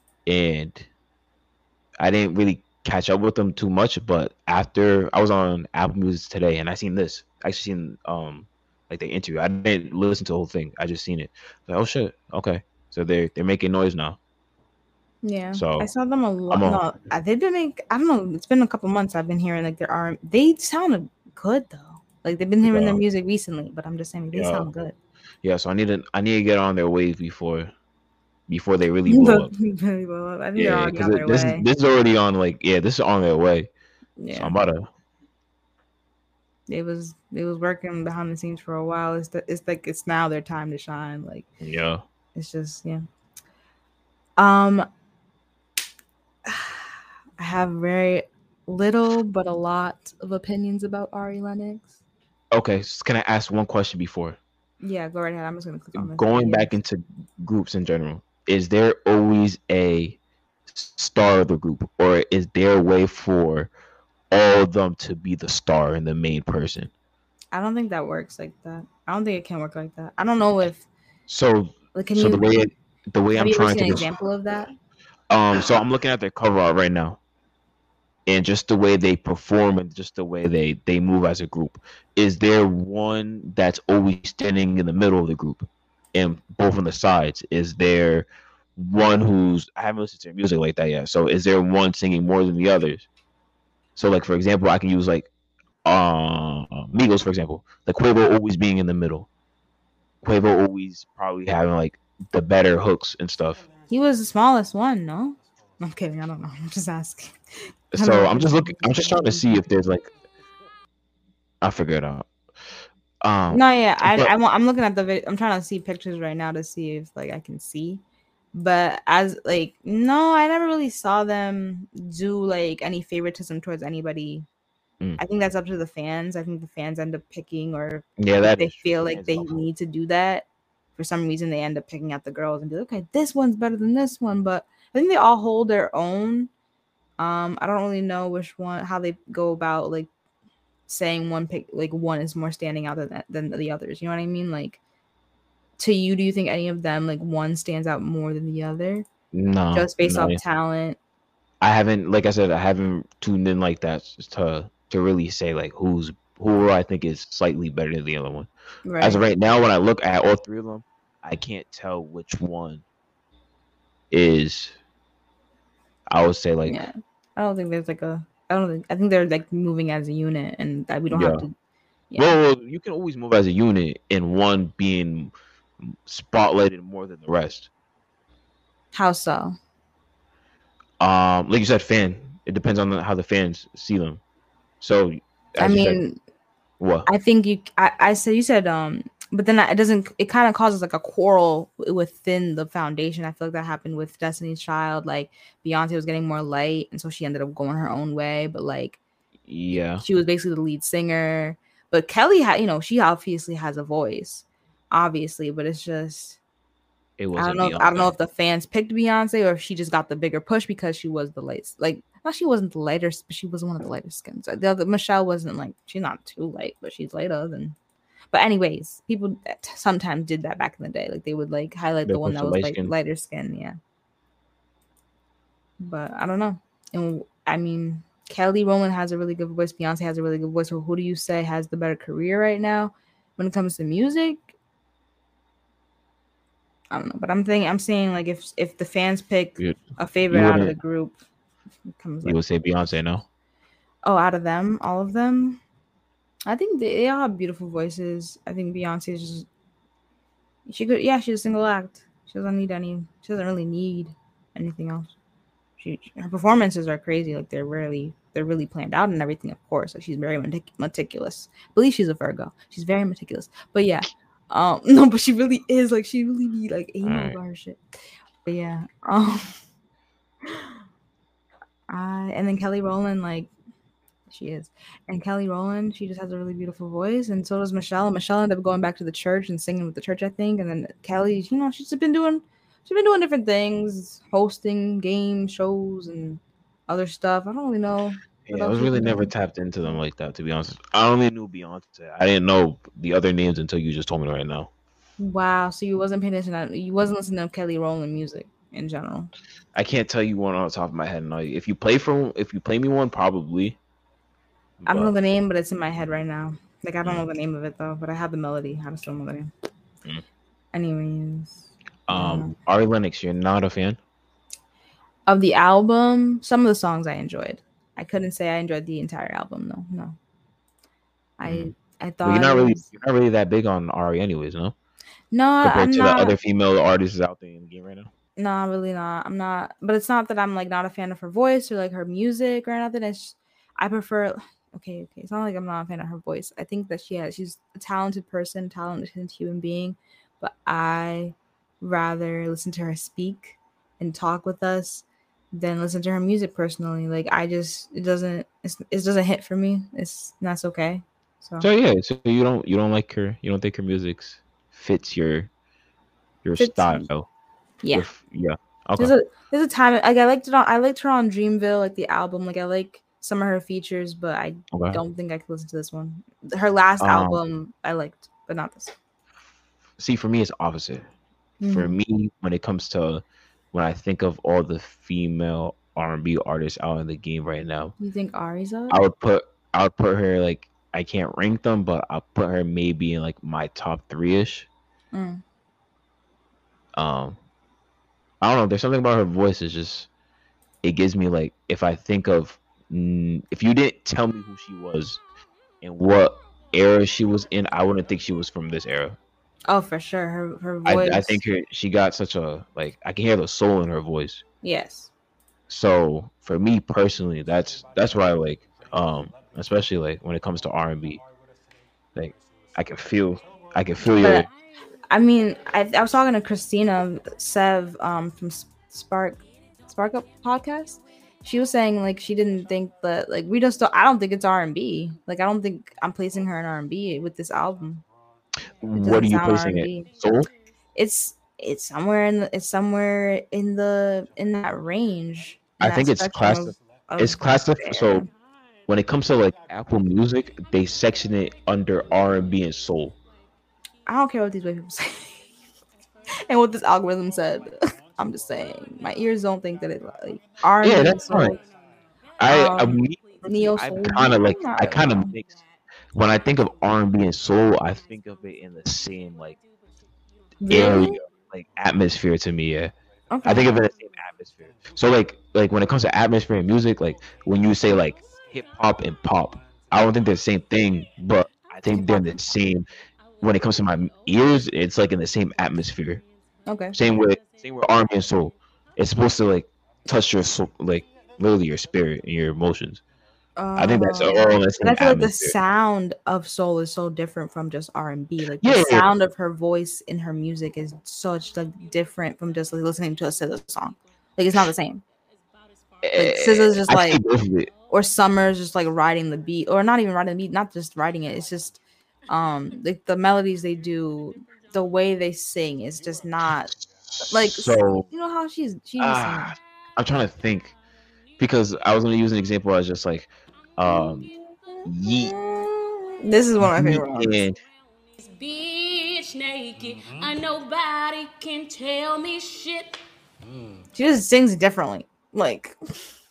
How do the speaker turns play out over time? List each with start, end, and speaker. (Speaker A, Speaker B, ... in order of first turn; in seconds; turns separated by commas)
Speaker A: 0.2-0.9, Speaker A: 2.0-14.2, Speaker B: 15.2-24.9, Speaker A: 15.5-15.9, Speaker A: 16.5-16.8, Speaker A: 22.6-23.0, Speaker A: 24.3-24.7, Speaker A: 25.4-27.7, Speaker A: 28.5-29.5, Speaker B: 29.1-31.6, Speaker A: 30.6-33.7, Speaker B: 34.2-34.5, Speaker A: 34.3-34.9, Speaker B: 36.7-41.5, Speaker A: 41.6-42.0, Speaker B: 42.3-43.0, Speaker B: 44.4-44.9, Speaker B: 46.5-52.0, Speaker A: 52.5-54.4, Speaker B: 54.8-56.7, Speaker A: 55.9-60.2, Speaker A: 60.7-63.7, Speaker A: 64.3-66.9, Speaker B: 67.5-70.8, Speaker A: 71.3-74.1, Speaker B: 71.9-72.6, Speaker B: 73.3-74.7, Speaker A: 75.3-77.2, Speaker A: 78.2-93.1, Speaker A: 94.0-95.3, Speaker A: 95.8-99.3, Speaker A: 100.2-103.6, Speaker B: 103.9-107.3, Speaker A: 107.9-110.1, Speaker B: 107.9-109.5, Speaker A: 111.6-112.3, Speaker A: 113.2-114.3, Speaker B: 113.5-118.0, Speaker B: 118.5-124.5, Speaker B: 125.2-130.4, Speaker A: 128.2-129.6, Speaker B: 131.0-136.5, Speaker B: 137.2-140.1, Speaker B: 140.9-144.8, Speaker B: 145.8-149.1, Speaker A: 149.3-150.4, Speaker B: 149.7-151.0, Speaker A: 151.6-158.5, Speaker B: 158.8-159.2, Speaker A: 159.0-162.8, Speaker A: 164.1-164.8, Speaker A: 166.1-166.8, Speaker B: 166.7-171.5, Speaker A: 171.1-171.4, Speaker B: 172.1-172.4, Speaker A: 172.2-177.7, Speaker B: 178.9-179.5, Speaker A: 181.0-184.2, Speaker A: 184.8-186.0, Speaker B: 185.6-186.2, Speaker A: 186.8-187.1, Speaker B: 187.1-199.0, Speaker A: 199.5-200.0, Speaker B: 200.0-206.4, Speaker A: 207.2-208.1, Speaker B: 207.3-217.8, Speaker B: 218.3-223.8, Speaker A: 222.0-222.9, Speaker B: 225.8-234.5, Speaker B: 236.9-241.2, Speaker A: 240.3-240.7, Speaker B: 242.0-242.4, Speaker A: 242.2-243.2, Speaker B: 244.0-245.6, Speaker B: 246.5-249.5, Speaker B: 250.7-255.1, Speaker B: 255.8-267.8, Speaker A: 267.0-267.4, Speaker B: 268.4-269.6, Speaker B: 270.4-270.8, Speaker B: 271.9-273.5, Speaker B: 274.3-289.3, Speaker A: 288.4-294.7, Speaker B: 295.2-299.3, Speaker A: 299.7-303.8, Speaker A: 304.8-305.1, Speaker B: 304.9-309.5, Speaker B: 310.7-312.5, Speaker A: 312.1-314.0, Speaker B: 315.3-320.1, Speaker B: 321.4-322.8, Speaker A: 321.4-324.7, Speaker B: 325.3-326.4, Speaker A: 325.6-328.1, Speaker B: 328.4-351.7, Speaker A: 351.6-355.5, Speaker A: 356.4-357.3, Speaker B: 356.6-357.0, Speaker B: 357.8-358.1, Speaker A: 357.9-359.1, Speaker B: 359.0-368.9, Speaker A: 364.7-365.0, Speaker A: 367.0-367.4, Speaker A: 370.0-371.1, Speaker B: 371.6-371.9, Speaker A: 371.7-377.9, Speaker B: 378.0-379.0, Speaker A: 378.9-384.7, Speaker B: 385.1-385.4, Speaker A: 386.9-387.4, Speaker A: 388.4-390.1, Speaker A: 390.8-395.2, Speaker A: 395.8-399.2, Speaker B: 399.7-401.4, Speaker A: 400.8-404.4, Speaker B: 404.6-405.1, Speaker A: 405.7-411.2, Speaker A: 412.1-414.5, Speaker B: 414.1-414.5, Speaker B: 415.1-428.0, Speaker A: 428.8-430.5, Speaker B: 429.0-430.1, Speaker B: 430.9-438.3, Speaker A: 435.8-438.3, Speaker A: 438.9-443.1, Speaker B: 444.1-445.4, Speaker B: 446.4-451.6, Speaker A: 450.8-451.6, Speaker A: 452.4-455.6, Speaker B: 452.4-455.4, Speaker A: 456.1-459.6, Speaker B: 460.6-461.2, Speaker A: 460.7-472.9, Speaker B: 463.3-463.7, Speaker B: 471.9-472.3, Speaker A: 473.4-476.2, Speaker B: 476.7-477.0, Speaker A: 476.9-483.0, Speaker B: 483.6-495.0, Speaker A: 483.8-485.6, Speaker A: 488.6-489.1, Speaker A: 496.0-497.7, Speaker B: 496.1-497.2, Speaker B: 497.9-501.8, Speaker B: 502.3-506.7, Speaker A: 506.7-508.1, Speaker B: 507.3-509.5, Speaker A: 509.0-510.7, Speaker A: 511.4-514.3, Speaker A: 514.9-515.3, Speaker B: 515.1-517.4, Speaker A: 516.6-517.6, Speaker C: 518.2-523.0, Speaker B: 523.9-525.8